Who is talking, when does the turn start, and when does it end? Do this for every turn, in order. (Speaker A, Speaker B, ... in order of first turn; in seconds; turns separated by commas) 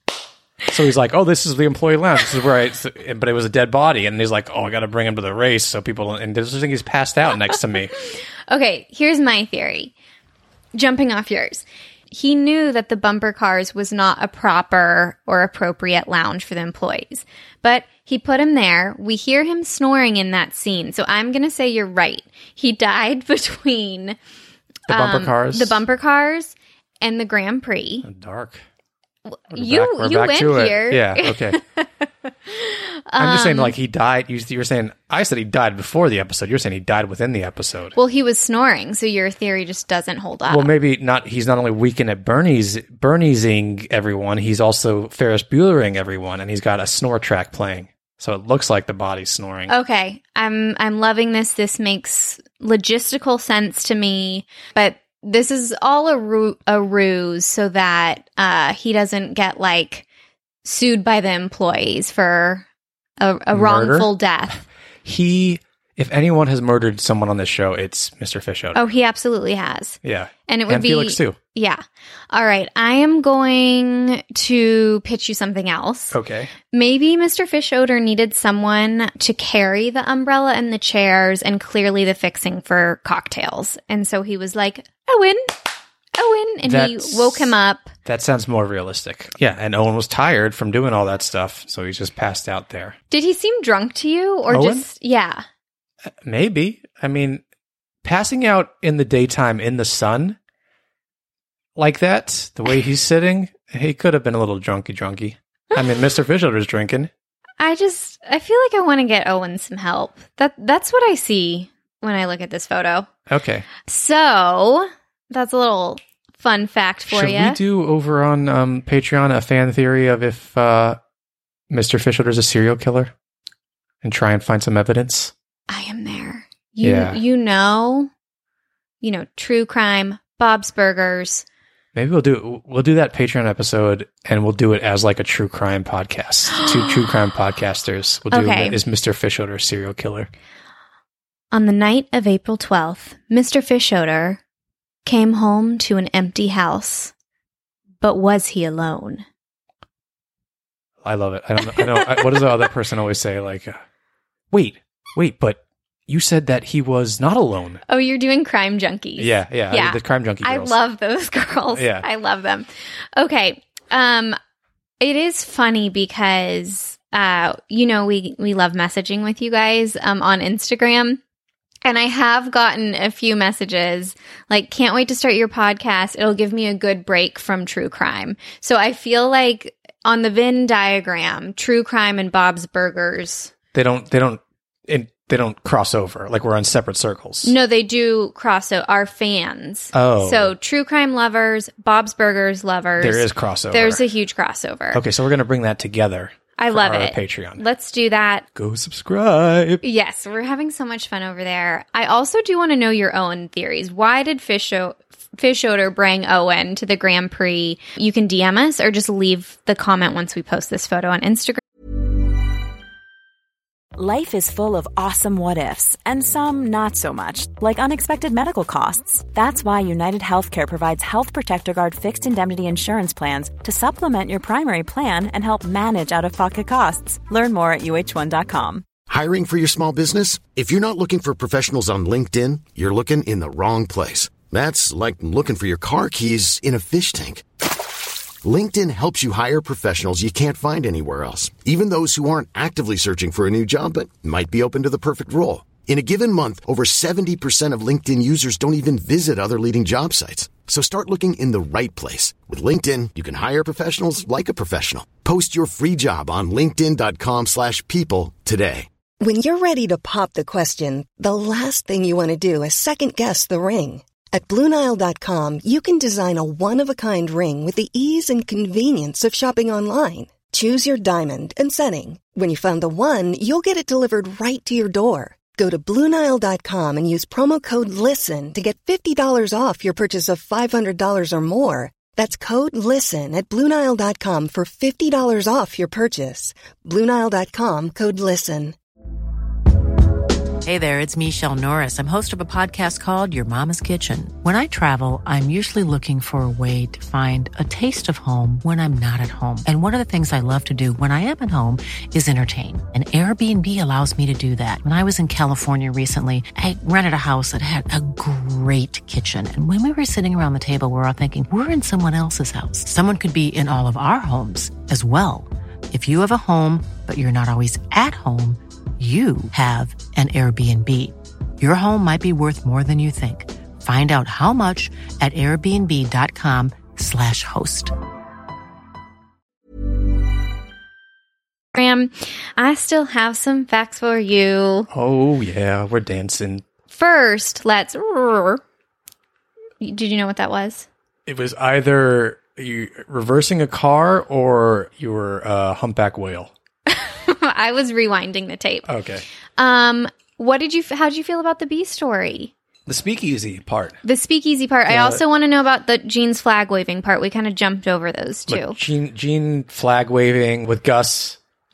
Speaker A: 0.7-7.9, Speaker B: 8.5-9.9, Speaker B: 10.7-24.2, Speaker A: 24.9-25.8, Speaker B: 24.9-28.1, Speaker A: 28.0-28.6, Speaker B: 29.3-33.8, Speaker A: 29.5-31.6, Speaker A: 33.2-38.0, Speaker B: 38.0-40.7, Speaker A: 40.5-49.7, Speaker B: 49.7-60.0, Speaker B: 60.6-62.7, Speaker B: 63.2-64.6, Speaker A: 63.5-64.1, Speaker A: 65.0-68.8, Speaker B: 68.8-76.2, Speaker A: 70.0-71.4, Speaker A: 76.1-76.5, Speaker B: 76.7-85.5, Speaker B: 86.2-87.9, Speaker A: 86.6-93.0, Speaker B: 93.1-95.5, Speaker A: 94.5-94.9, Speaker A: 96.2-97.4, Speaker A: 98.0-100.4, Speaker A: 101.8-107.1, Speaker B: 107.6-113.1, Speaker A: 113.3-113.7, Speaker B: 113.8-117.6, Speaker A: 117.1-121.0, Speaker A: 121.7-123.1, Speaker A: 124.0-125.3, Speaker B: 125.7-128.1, Speaker A: 126.8-127.2, Speaker B: 129.0-131.4, Speaker A: 131.9-140.3, Speaker B: 138.3-138.8, Speaker B: 141.5-144.4, Speaker B: 145.1-147.1, Speaker B: 148.0-149.2, Speaker A: 151.0-153.8, Speaker A: 154.5-157.8, Speaker B: 157.9-164.4, Speaker A: 159.2-160.8, Speaker A: 161.7-162.1, Speaker B: 165.0-171.2, Speaker B: 171.8-183.5, Speaker A: 183.7-187.6, Speaker B: 187.4-195.0, Speaker A: 189.9-190.6, Speaker A: 193.0-194.0, Speaker A: 194.9-197.6, Speaker B: 196.6-198.5, Speaker A: 198.6-199.8, Speaker B: 199.8-211.6, Speaker C: 214.0-228.8, Speaker D: 229.1-237.4, Speaker D: 238.4-258.9, Speaker E: 259.2-288.8, Speaker F: 290.6-327.9, Speaker B: 331.7-334.9, Speaker A: 334.9-336.6, Speaker B: 336.9-338.6, Speaker B: 339.8-340.9, Speaker A: 341.3-346.5, Speaker B: 346.9-348.9, Speaker A: 348.9-349.2, Speaker B: 349.6-352.5, Speaker A: 352.9-354.0, Speaker B: 354.0-358.8, Speaker A: 354.9-355.2, Speaker A: 358.5-361.4